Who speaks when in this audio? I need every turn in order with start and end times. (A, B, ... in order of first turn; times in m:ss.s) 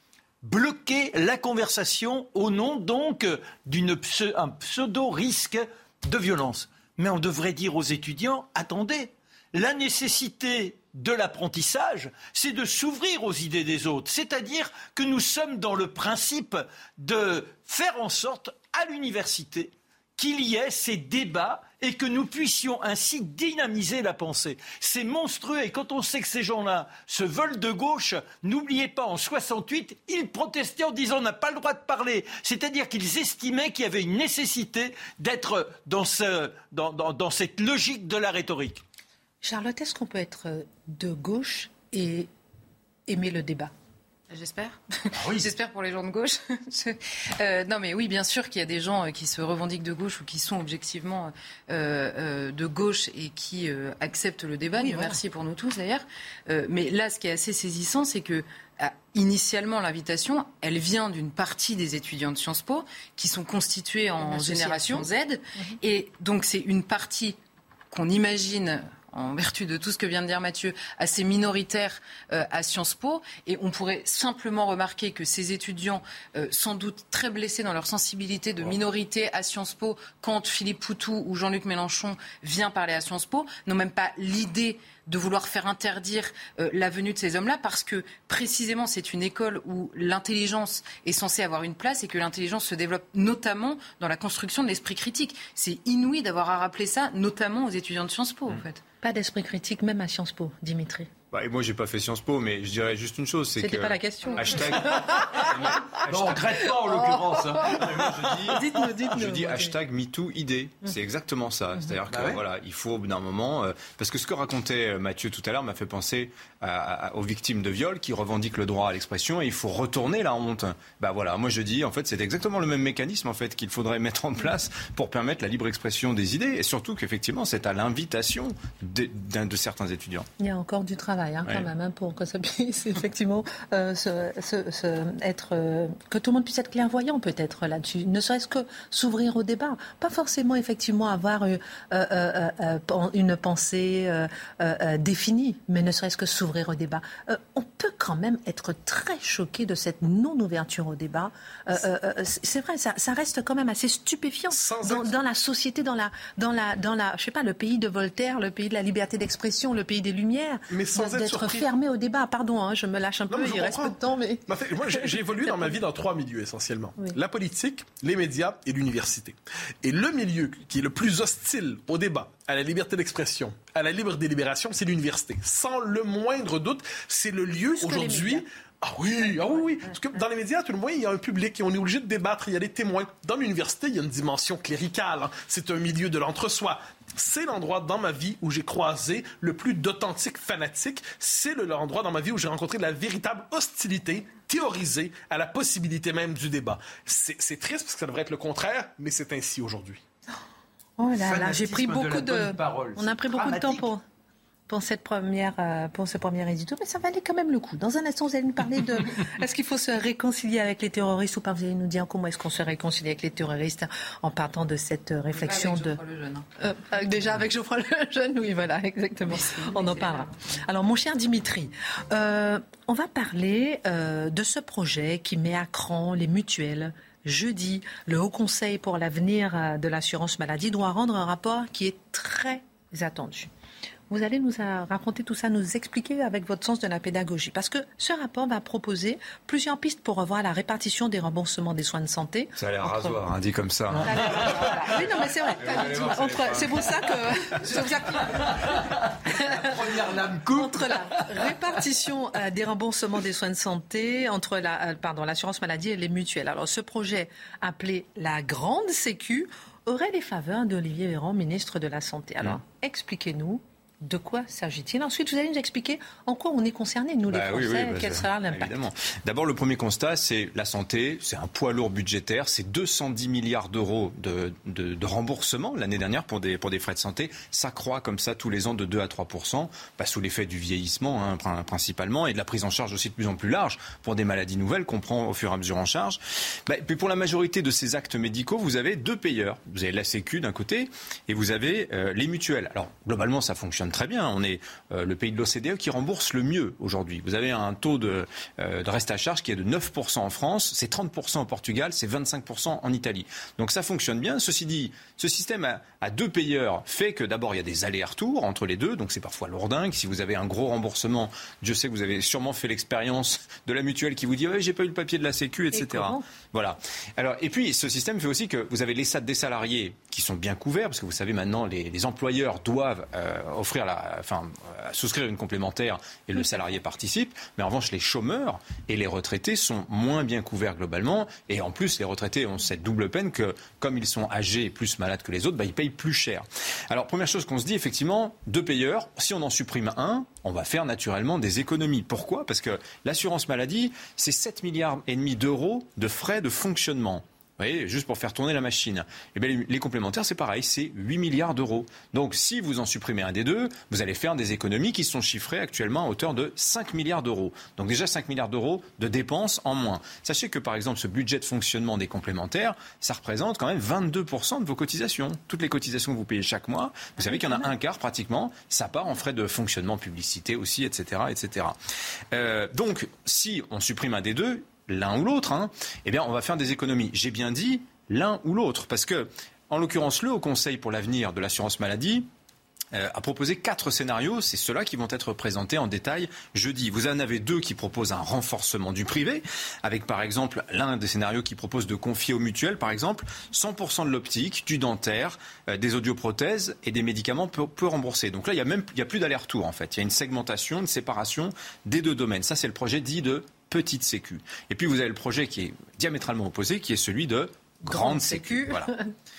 0:00.4-0:38.8 A
0:39.4-0:42.3 B
0:43.1-0:43.7 B
0:44.3-1:07.4 C
0:45.2-0:45.5 A
0:54.8-0:55.2 B
1:04.2-1:05.7 B
1:07.9-1:38.8 C
1:39.0-1:41.1 B
1:41.3-1:46.6 D
1:43.6-1:45.5 B
1:46.0-1:48.2 A
1:46.6-1:47.9 B
1:47.6-2:10.3 D
1:48.5-1:49.8 B
1:52.1-1:52.4 A
2:10.4-2:45.7 B
2:34.5-2:35.2 E
2:40.7-2:41.7 E
2:43.3-2:44.0 E
2:44.5-3:20.0 E
2:57.7-2:58.5 B
2:59.2-2:59.9 B
3:21.0-3:24.0 B
3:21.2-3:23.9 A
3:24.7-3:36.0 B
3:35.4-3:36.4 C
3:36.6-3:53.5 B
3:39.4-3:40.3 C
3:54.1-4:03.2 B
4:02.6-4:05.0 D
4:04.0-4:08.6 B
4:05.6-4:06.9 D
4:07.7-4:11.6 A
4:09.4-4:09.7 B
4:10.5-4:28.9 B
4:27.3-6:11.8 D
5:15.7-5:16.3 B
6:07.2-6:07.7 B
6:12.3-6:22.3 D
6:22.9-6:48.9 D
6:47.8-6:49.0 B